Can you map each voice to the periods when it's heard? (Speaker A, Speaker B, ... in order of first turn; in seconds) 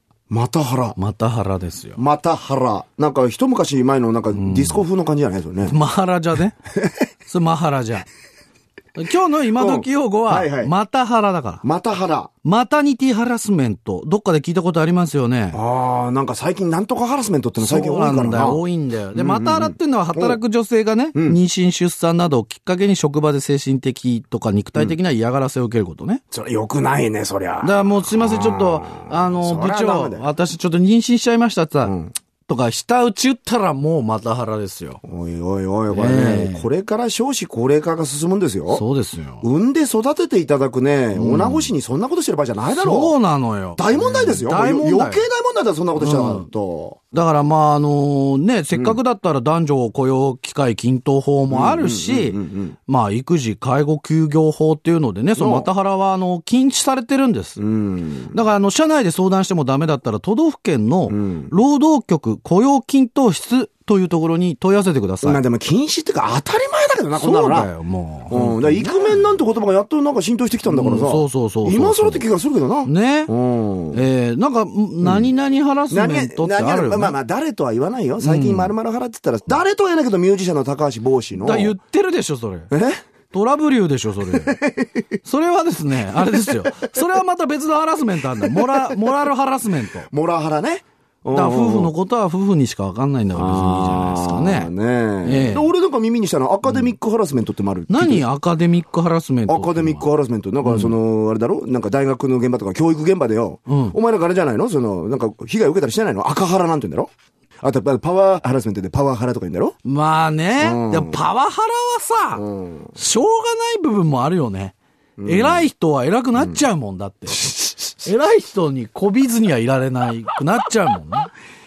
Speaker A: 0.3-1.0, 2.0-5.8, 6.8-7.0, 9.5-10.7, 11.6-12.3, 15.5-18.6, 19.1-20.4, 21.1-21.4, 26.3-30.3, 31.8-32.1, 35.0-38.8, 39.4-43.1, 43.8-47.0, 51.5-52.8, 55.4-55.7, 57.6-58.4, 61.1-61.5, 65.2-67.7, 68.3-74.0, 75.0-75.3, 75.9-81.7, 82.7-83.0, 84.3-85.1, 86.3-87.0, 88.4-89.3, 90.1-91.9, 93.3-98.2, 99.5-107.1, 107.6-109.7, 110.6-111.2, 112.3-112.9, 115.2-115.7, 116.4-116.6, 117.3-117.7
Speaker B: 0.9-2.0, 4.3-4.8, 5.7-6.5, 7.3-8.1, 8.9-11.6, 12.4-15.6, 17.6-26.2, 27.6-31.9, 32.5-35.0, 35.9-36.6, 38.7-39.4, 41.1-41.7, 42.7-45.2, 46.0-46.5, 47.1-57.6, 58.3-65.4, 67.2-69.2, 70.7-72.2, 72.8-73.3, 73.9-77.1, 78.2-78.7, 81.4-82.7, 83.3-84.6, 85.2-90.1, 91.3-94.7, 95.2-95.7, 97.9-100.0, 100.6-100.9, 103.7-104.0, 109.8-112.4, 112.9-117.5, 118.0-121.3